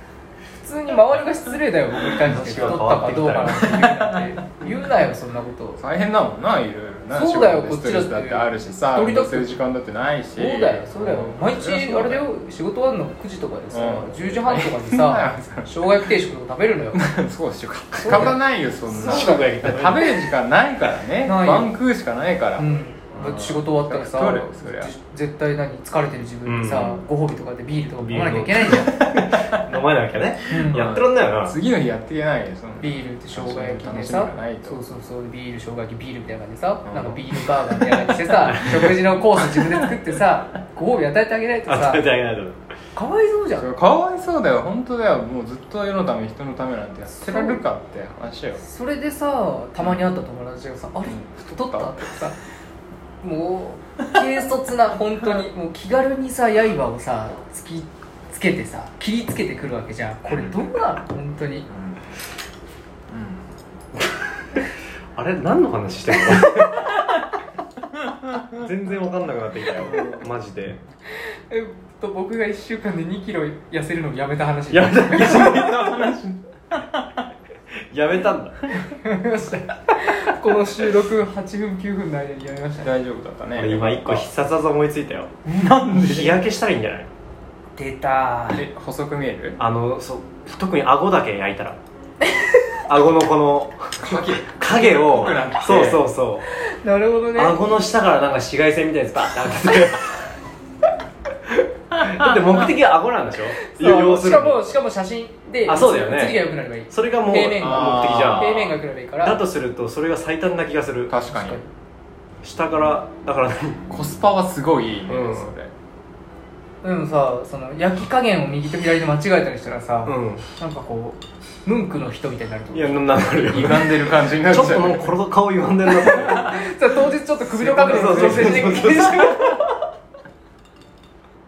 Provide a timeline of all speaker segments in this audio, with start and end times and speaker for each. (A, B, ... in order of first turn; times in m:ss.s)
0:00.6-0:05.8 A
0:02.2-0:03.7 B
0:03.5-0:04.3 C
0:05.8-0:12.3 C
0:07.1-0:09.6 A
0:10.4-0:17.0 A
0:13.7-0:15.7 C
0:16.9-0:24.9 C
0:18.0-0:18.4 A
0:18.9-0:20.1 B
0:19.0-0:19.4 A
0:21.2-0:21.7 A
0:22.6-0:28.9 A
0:26.4-0:27.0 B
0:28.0-0:31.5 B
0:30.5-0:30.8 A
0:30.6-0:34.8 C
0:32.8-0:42.0 A
0:36.8-0:38.1 C
0:38.6-0:38.9 B
0:39.4-0:39.8 C
0:41.7-0:42.6 B
0:42.9-0:43.7 A
0:43.5-0:48.6 C
0:47.2-0:47.6 A
0:48.6-0:52.4 A
0:51.0-0:52.2 C
0:53.2-1:01.7 A
1:01.7-1:02.0 C
1:03.1-1:03.6 C
1:05.2-1:07.0 B
1:08.5-1:10.8 B
1:09.8-1:10.2 C
1:11.1-1:15.7 A
1:14.7-1:17.2 C
1:17.9-1:18.6 B
1:18.9-1:22.9 A
1:22.8-1:24.3 C
1:23.5-1:25.3 B
1:25.4-1:26.4 C
1:25.9-1:27.1 B
1:27.8-1:28.7 A
1:28.5-1:29.6 C
1:29.6-1:31.8 B
1:32.9-1:36.4 B
1:34.0-1:36.1 C
1:36.5-1:37.6 A
1:37.3-1:40.3 B
1:42.0-1:44.8 B
1:42.0-1:42.4 C
1:43.6-1:49.4 A
1:45.6-1:51.1 B
1:47.6-1:48.5 C
1:51.1-1:51.6 C
1:51.3-1:51.7 A
1:52.4-1:53.9 B
1:53.9-1:55.7 C
1:55.1-1:55.5 B
1:56.8-2:03.0 A
2:00.0-2:00.4 B
2:02.7-2:06.8 B
2:03.5-2:05.2 C
2:05.8-2:09.6 A
2:07.4-2:09.8 B